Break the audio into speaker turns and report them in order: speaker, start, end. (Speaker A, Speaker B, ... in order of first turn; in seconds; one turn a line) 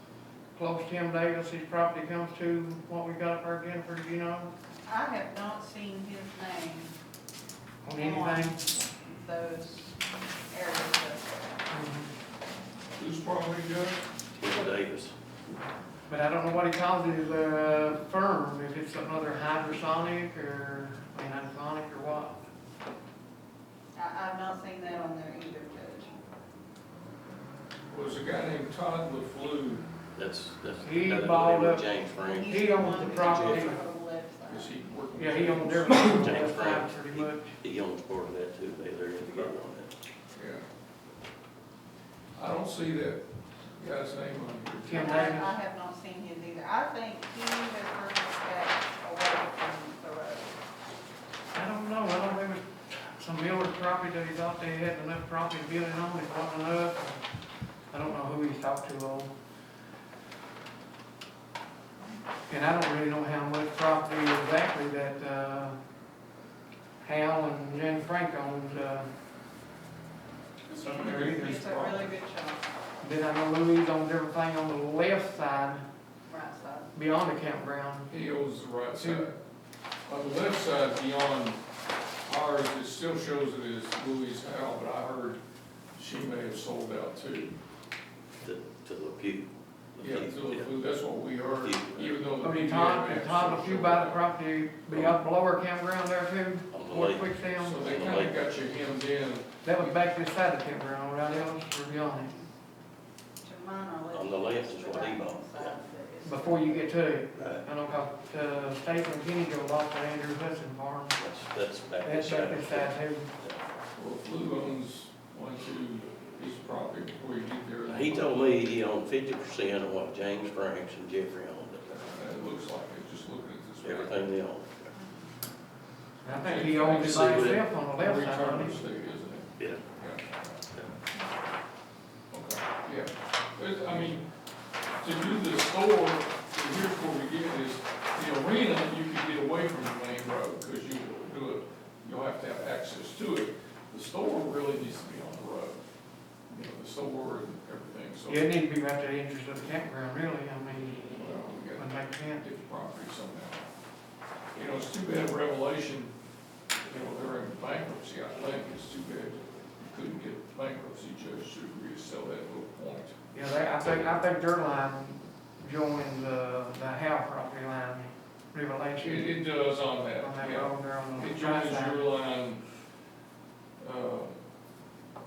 Speaker A: 0.5-4.5
Speaker B: 4.8-6.9
Speaker A: 7.8-8.6
Speaker B: 7.9-11.5
Speaker A: 11.7-12.1
Speaker C: 13.0-14.0
Speaker D: 14.4-15.1
Speaker A: 16.1-22.4
Speaker B: 23.9-26.1
Speaker C: 27.9-29.9
Speaker D: 30.1-33.7
Speaker A: 30.8-31.9
Speaker B: 32.2-34.7
Speaker A: 32.5-33.8
Speaker C: 34.5-36.8
Speaker A: 35.2-37.6
Speaker D: 36.1-39.9
Speaker C: 40.3-40.6
Speaker C: 42.4-43.2
Speaker C: 43.8-45.3
Speaker A: 44.8-45.5
Speaker B: 44.9-50.6
Speaker A: 51.5-57.2
Speaker A: 57.9-59.3
Speaker A: 62.5-65.8
Speaker A: 67.0-69.1
Speaker B: 70.7-72.7
Speaker A: 70.8-71.8
Speaker C: 70.8-72.1
Speaker A: 73.0-75.8
Speaker B: 76.3-76.9
Speaker A: 76.9-78.1
Speaker C: 78.1-79.4
Speaker A: 79.0-79.3
Speaker C: 80.1-81.6
Speaker C: 82.3-85.4
Speaker C: 86.0-87.6
Speaker D: 88.4-90.7
Speaker C: 90.0-94.2
Speaker D: 91.6-92.2
Speaker A: 92.4-98.1
Speaker D: 94.9-95.2
Speaker D: 96.7-98.4
Speaker C: 97.5-100.0
Speaker A: 99.6-102.4
Speaker B: 103.4-107.0
Speaker D: 104.1-105.8
Speaker A: 106.2-111.2
Speaker D: 107.4-107.7
Speaker D: 111.2-113.6
Speaker A: 112.0-113.3
Speaker C: 114.0-118.7
Speaker D: 117.9-121.9
Speaker C: 121.9-124.2
Speaker D: 123.8-124.9
Speaker B: 125.0-125.2
Speaker A: 126.2-128.8
Speaker C: 126.3-130.6
Speaker D: 127.0-127.6
Speaker D: 129.6-129.8
Speaker C: 132.3-134.3
Speaker C: 135.0-145.8
Speaker C: 146.5-148.4
Speaker A: 148.3-151.1
Speaker C: 151.1-153.7
Speaker A: 151.8-152.4
Speaker C: 154.6-156.1
Speaker C: 156.9-163.2
Speaker A: 163.3-169.3
Speaker C: 169.0-172.6
Speaker A: 170.2-172.0
Speaker C: 173.8-174.4